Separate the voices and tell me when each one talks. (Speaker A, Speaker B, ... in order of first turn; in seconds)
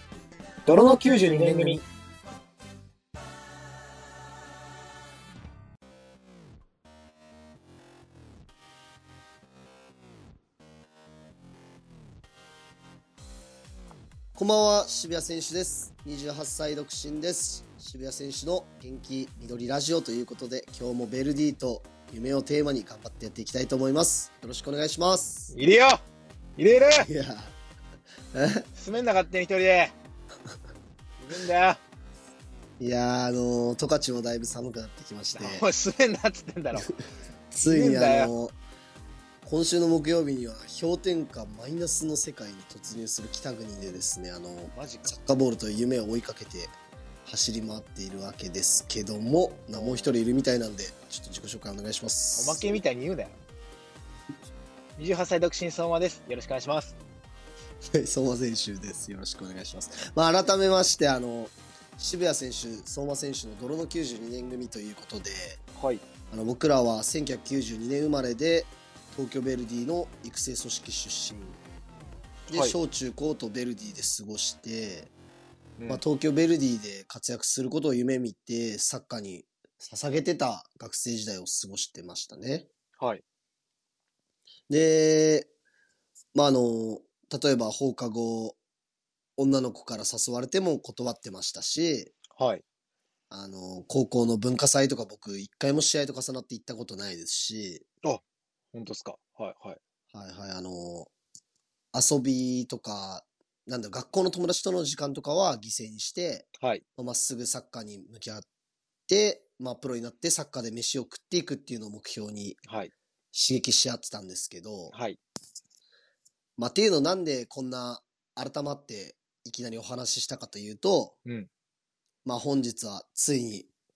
Speaker A: 0.7-1.8, 25.5-26.0, 26.6-27.1, 28.8-29.9, 31.2-31.8, 35.4-36.9, 37.6-38.3, 44.7-45.1, 49.7-50.2, 52.4-53.4, 55.0-57.0, 65.8-66.0, 75.8-76.0, 92.3-92.6, 98.7-99.8, 106.6-106.8, 112.7-112.9, 114.9-115.2
Speaker B: 0.7-1.9, 14.4-25.5, 27.0-27.6, 28.3-28.7, 32.8-35.7, 37.5-38.6, 39.5-52.8, 57.9-65.6, 66.3-71.6, 72.5-75.1, 75.9-82.7, 84.7-85.5, 86.3-88.6, 89.4-92.1, 93.3-97.8, 100.1-101.1, 101.9-108.5, 109.1-112.6, 113.3-114.9, 116.6-121.2, 122.2-123.7